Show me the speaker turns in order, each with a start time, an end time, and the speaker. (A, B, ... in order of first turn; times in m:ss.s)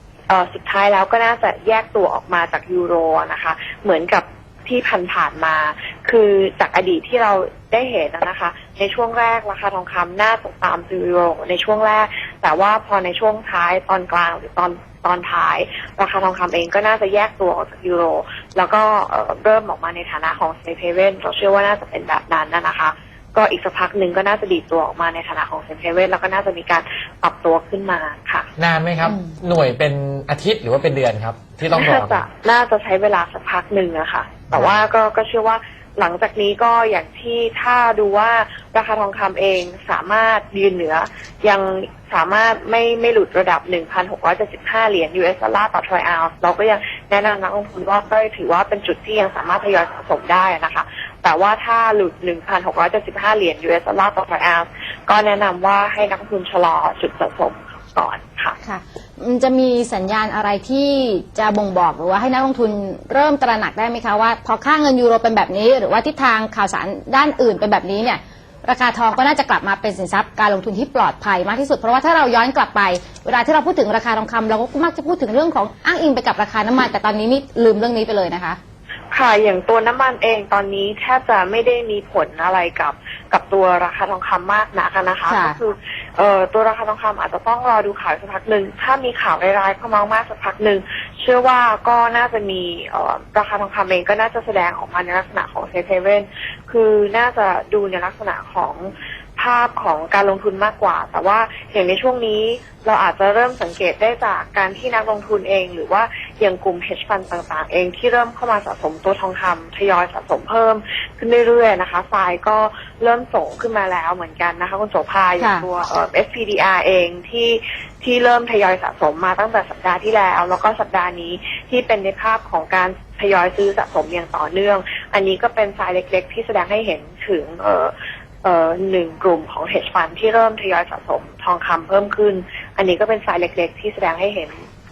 0:00.3-0:28.5 A
0:28.6-0:32.2 B
0:29.0-0:29.3 C
0:31.7-0:58.6 A
0:34.5-0:34.8 B
0:58.6-1:18.6 C
1:19.1-2:14.6 A
1:25.3-1:25.6 C
1:55.4-1:55.7 C